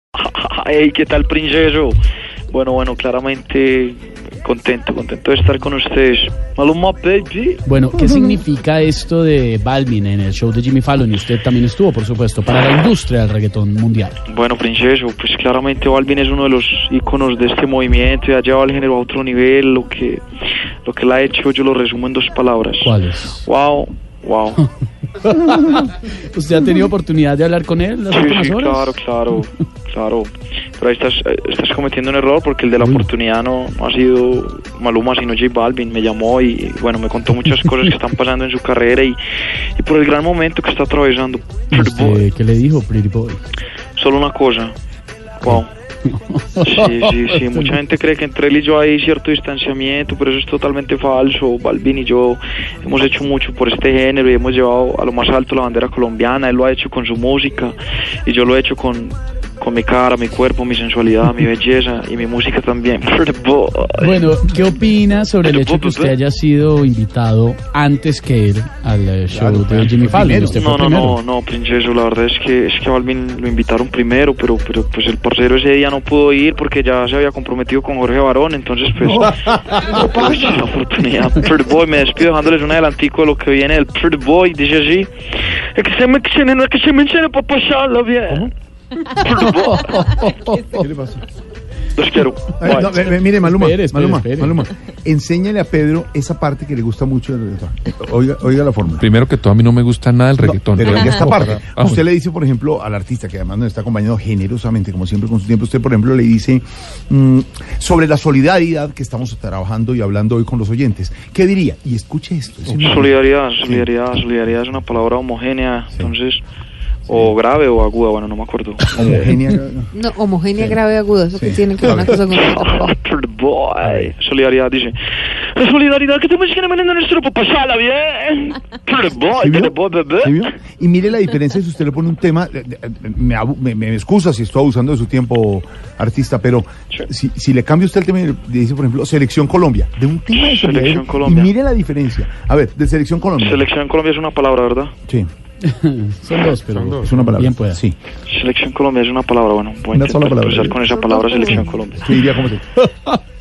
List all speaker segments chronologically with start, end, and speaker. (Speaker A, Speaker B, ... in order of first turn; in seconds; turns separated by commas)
Speaker A: 0.1-2.0, Speaker A: 2.5-7.6, Speaker B: 7.7-14.2, Speaker A: 14.3-20.2, Speaker A: 20.9-24.6, Speaker B: 22.8-23.5, Speaker B: 25.2-29.0, Speaker A: 28.1-39.2, Speaker B: 32.8-33.1, Speaker A: 39.8-42.2, Speaker B: 41.7-43.4, Speaker A: 44.0-44.7, Speaker A: 45.4-45.7, Speaker B: 45.4-47.7, Speaker A: 46.6-64.1, Speaker B: 64.0-71.2, Speaker A: 65.4-66.1, Speaker C: 69.3-70.6, Speaker A: 70.5-85.1, Speaker C: 79.1-80.4, Speaker A: 85.8-88.5, Speaker A: 89.1-90.1, Speaker B: 89.4-90.7, Speaker C: 90.6-91.2, Speaker A: 92.0-93.0, Speaker C: 92.6-99.1, Speaker B: 93.4-94.7, Speaker D: 99.0-102.0, Speaker C: 100.4-114.0, Speaker A: 112.7-116.4, Speaker A: 117.1-118.9, Speaker C: 117.1-117.4, Speaker C: 118.9-119.9, Speaker E: 120.0-122.9, Speaker C: 120.5-120.8, Speaker C: 121.3-122.2, Speaker A: 121.8-125.0, Speaker C: 123.8-124.1, Speaker A: 125.5-130.5, Speaker C: 129.4-143.7, Speaker A: 140.3-141.5, Speaker A: 143.4-144.9, Speaker B: 145.6-147.8, Speaker C: 147.0-148.0, Speaker A: 148.3-152.1, Speaker C: 149.9-150.8, Speaker C: 151.5-152.8